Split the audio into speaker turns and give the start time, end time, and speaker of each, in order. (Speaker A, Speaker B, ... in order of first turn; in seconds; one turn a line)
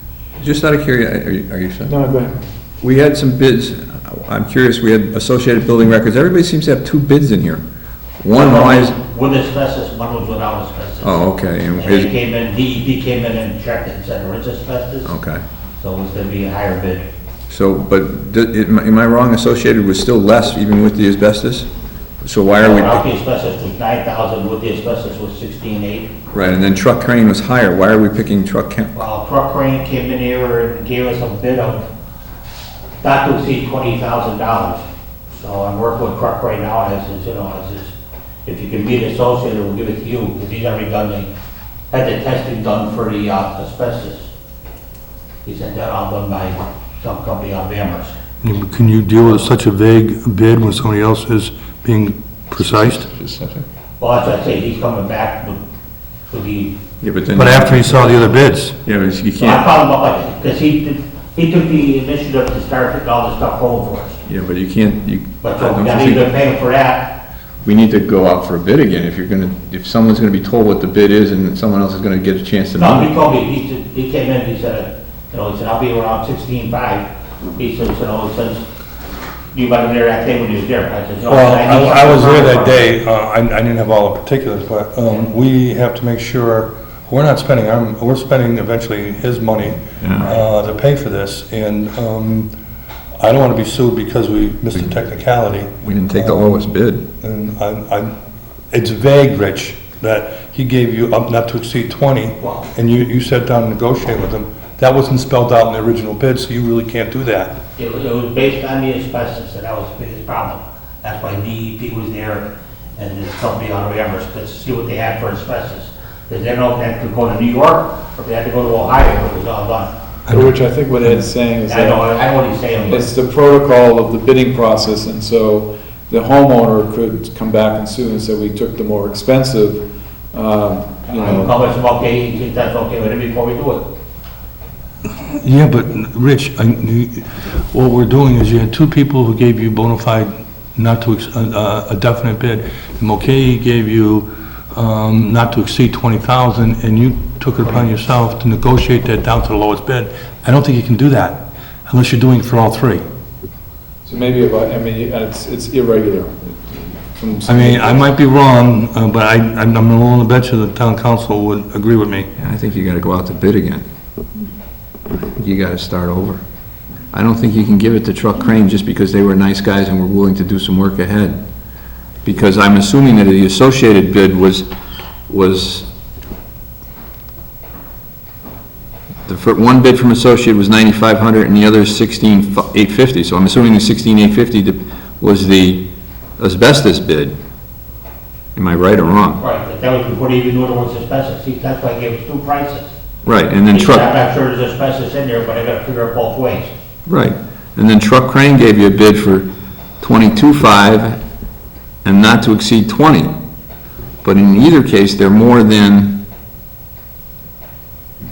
Speaker A: 0.4-1.9
Speaker B: 1.9-2.4
Speaker A: 2.8-7.6
Speaker A: 8.2-8.9
Speaker C: 8.3-11.2
Speaker A: 11.0-12.1
Speaker C: 11.7-15.1
Speaker A: 15.0-15.4
Speaker C: 15.8-17.0
Speaker A: 17.5-21.7
Speaker A: 22.2-23.0
Speaker C: 22.6-26.1
Speaker A: 26.3-28.9
Speaker C: 28.9-31.8
Speaker C: 33.0-37.9
Speaker C: 38.4-41.3
Speaker C: 41.9-44.3
Speaker C: 45.4-48.1
Speaker D: 48.4-53.1
Speaker A: 52.6-53.6
Speaker C: 54.0-55.6
Speaker C: 56.3-56.7
Speaker A: 57.0-58.3
Speaker D: 57.3-58.8
Speaker A: 58.8-59.6
Speaker C: 59.4-64.2
Speaker A: 64.3-66.3
Speaker C: 65.4-67.1
Speaker A: 67.6-73.1
Speaker C: 72.8-78.7
Speaker C: 79.5-82.9
Speaker D: 81.2-92.5
Speaker A: 90.0-90.3
Speaker D: 93.2-96.7
Speaker A: 95.8-97.0
Speaker D: 97.2-98.1
Speaker D: 98.7-107.6
Speaker C: 102.4-102.7
Speaker C: 107.8-119.9
Speaker D: 120.3-120.5
Speaker B: 120.3-122.0
Speaker C: 121.7-123.1
Speaker B: 122.9-131.5
Speaker C: 131.2-133.9
Speaker D: 135.2-153.0
Speaker B: 154.0-158.1
Speaker D: 157.4-162.3
Speaker A: 162.4-163.8
Speaker A: 165.1-166.4
Speaker A: 167.1-171.4
Speaker A: 172.2-174.7
Speaker A: 175.3-175.9
Speaker A: 179.2-187.3
Speaker A: 188.5-189.4
Speaker C: 189.4-192.9
Speaker A: 193.2-194.1
Speaker C: 193.7-196.7
Speaker A: 197.1-199.5
Speaker A: 200.0-201.2
Speaker A: 202.0-203.3
Speaker A: 204.2-206.2